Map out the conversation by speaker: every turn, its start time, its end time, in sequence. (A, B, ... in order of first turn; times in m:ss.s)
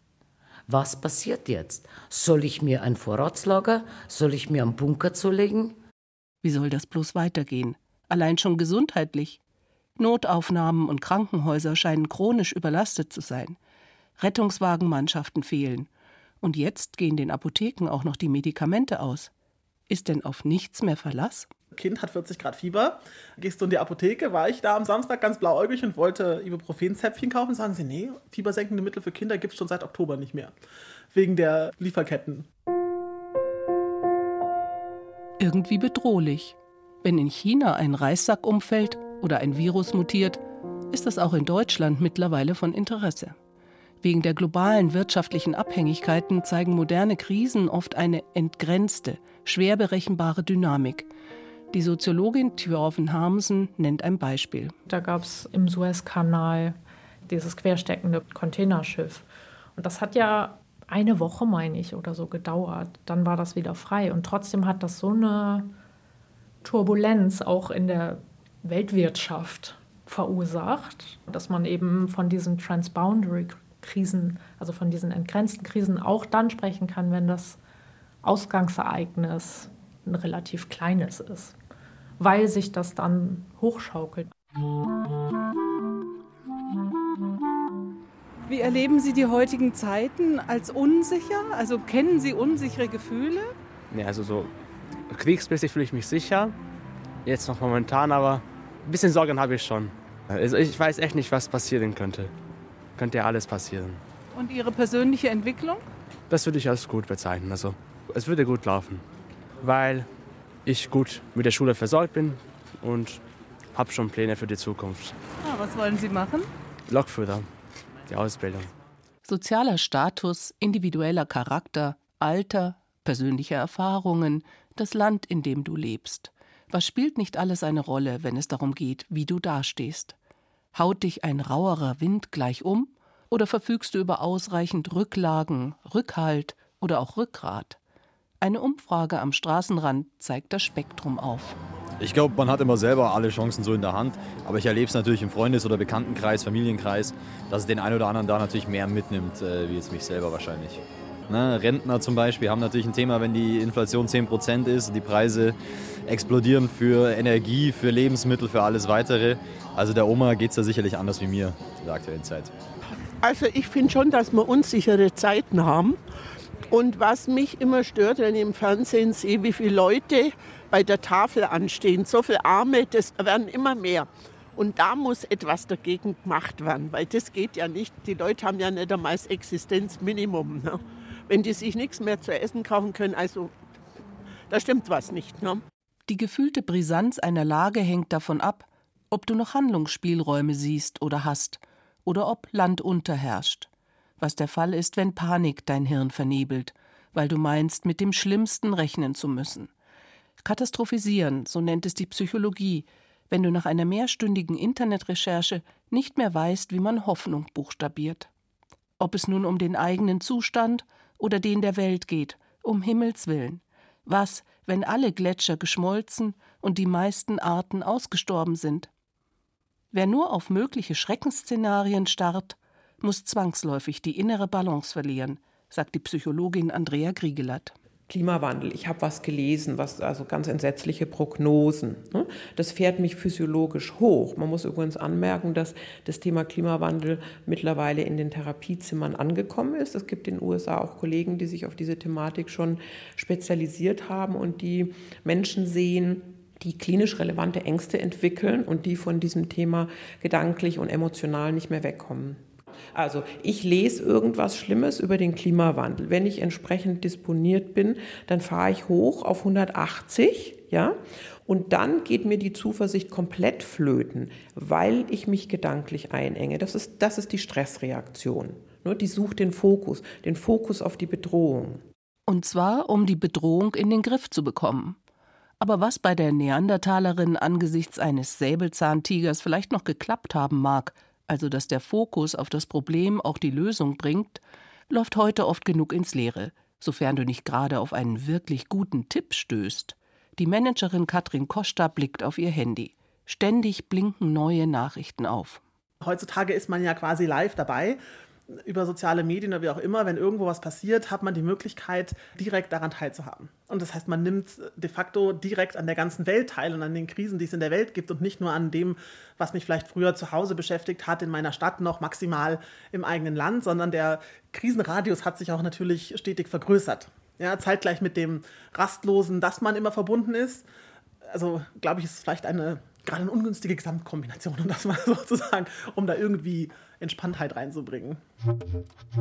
0:00.7-0:05.8 A
0:06.4-0:09.4 B
0:10.0-0:13.6 B
0:14.2-0:15.9 B
0:16.4-0:19.3 B
0:19.9-0:21.5 B
0:21.7-0:30.5 C
0:31.1-0:32.4 C
0:35.4-0:43.3 B
0:44.0-0:51.1 B
0:51.7-0:54.7 B
0:54.9-1:05.7 D
1:06.6-1:17.6 D
1:18.2-1:21.6 D
1:22.2-1:24.3 D
1:28.5-1:33.5 E
1:33.9-1:34.5 F
1:35.1-1:36.5 F
1:37.2-1:42.3 F
1:43.0-1:44.0 F
1:44.3-1:45.8 E
1:46.3-1:49.0 F
1:49.6-1:50.1 F
1:50.6-1:53.2 F
1:53.7-1:55.2 F
1:55.4-1:56.5 E
1:56.9-1:57.5 F
1:58.1-1:58.7 F
1:59.2-2:10.2 B
2:10.7-2:17.8 B
2:18.4-2:21.6 B
2:22.0-2:42.5 G
2:43.2-2:46.0 H
2:46.7-3:03.5 H
3:04.5-3:05.6 H
3:06.1-3:13.7 B
3:14.2-3:19.7 B
3:20.4-3:28.3 B
3:29.0-3:38.9 B
3:39.9-3:47.7 B
3:48.1-4:12.4 I
4:12.9-4:31.8 I
4:32.3-4:35.0 B
4:35.6-4:55.6 B
4:56.0-4:58.0 C
4:58.5-5:20.6 C
5:21.2-5:28.2 C